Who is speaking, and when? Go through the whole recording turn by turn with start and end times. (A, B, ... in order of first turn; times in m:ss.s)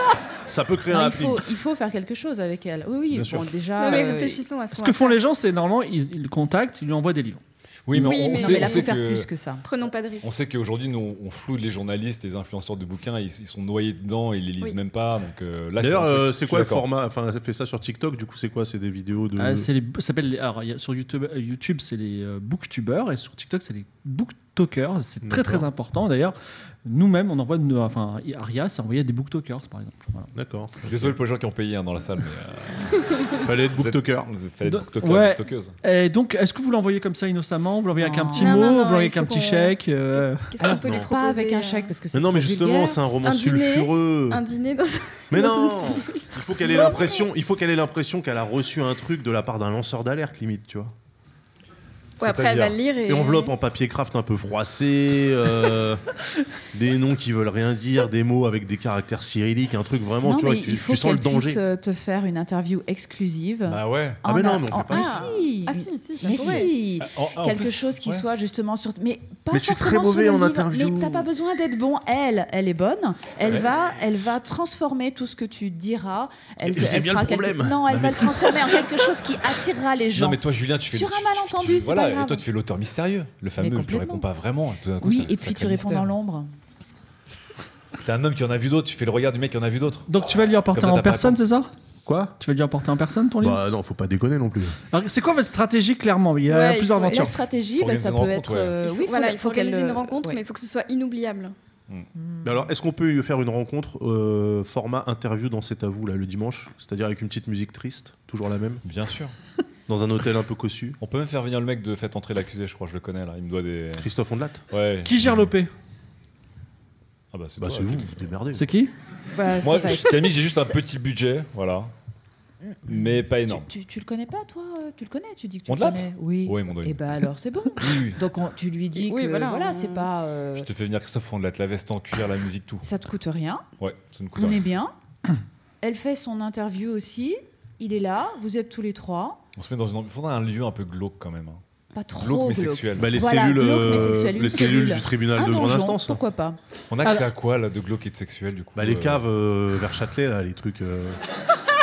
0:00.4-0:01.5 A
0:00.9-0:04.4 B
0:03.1-0:03.5 A
0:03.8-0:05.2 C
0:04.7-0:07.4 D
0:07.8-0:09.3 E
0:07.9-0:08.9 C
0:08.0-0:09.6 B
0:09.6-0:10.3 C
0:10.2-0:16.8 E
0:15.8-0:19.7 A
0:19.4-0:30.3 D
0:25.2-0:25.7 A
0:30.3-0:31.2 A
0:30.8-0:35.8 E
0:33.4-0:34.3 A
0:34.6-0:40.5 D
0:38.0-0:38.7 B
0:38.4-0:41.9 C
0:40.6-0:43.0 B
0:40.8-0:41.1 A
0:42.1-0:44.4 A
0:43.2-0:47.2 C
0:45.3-0:50.9 A
0:52.2-0:53.5 C
0:52.2-0:56.0 A
0:56.7-1:01.6 A
1:00.2-1:20.4 B
1:03.7-1:04.2 E
1:04.2-1:05.3 A
1:04.9-1:06.7 C
1:07.0-1:08.2 E
1:09.5-1:11.3 A
1:16.6-1:18.5 A
1:20.1-1:26.1 E
1:20.9-1:22.4 B
1:23.6-1:24.2 B
1:25.0-1:26.5 B
1:28.0-1:30.1 E
1:30.1-1:31.7 D
1:30.7-1:31.4 E
1:32.0-1:32.3 A
1:32.4-1:33.6 D
1:33.4-1:34.8 A
1:34.9-1:37.4 D
1:36.4-1:37.3 C
1:37.0-1:40.4 B
1:37.8-1:38.8 E
1:38.8-1:41.5 C
1:42.2-1:42.5 B
1:42.4-1:48.8 A
1:48.8-1:49.3 E
1:49.9-1:51.0 A
1:51.0-1:54.1 E
1:54.0-1:54.6 A
1:54.7-1:55.5 E
1:55.0-1:55.7 D
1:57.3-1:58.3 E
1:57.6-1:58.7 A
1:58.5-1:58.9 D
1:59.3-2:00.7 B
1:59.6-2:01.9 E
2:02.7-2:10.7 B
2:02.9-2:03.7 E
2:05.7-2:07.2 E
2:07.8-2:08.2 E
2:08.9-2:10.1 C
2:10.5-2:12.9 E
2:12.8-2:13.6 B
2:13.8-2:14.6 E
2:14.4-2:14.9 B
2:15.8-2:19.4 B
2:19.6-2:21.6 E
2:21.9-2:26.6 B
2:22.2-2:23.2 E
2:23.0-2:26.2 A
2:26.9-2:29.2 E
2:28.7-2:31.2 A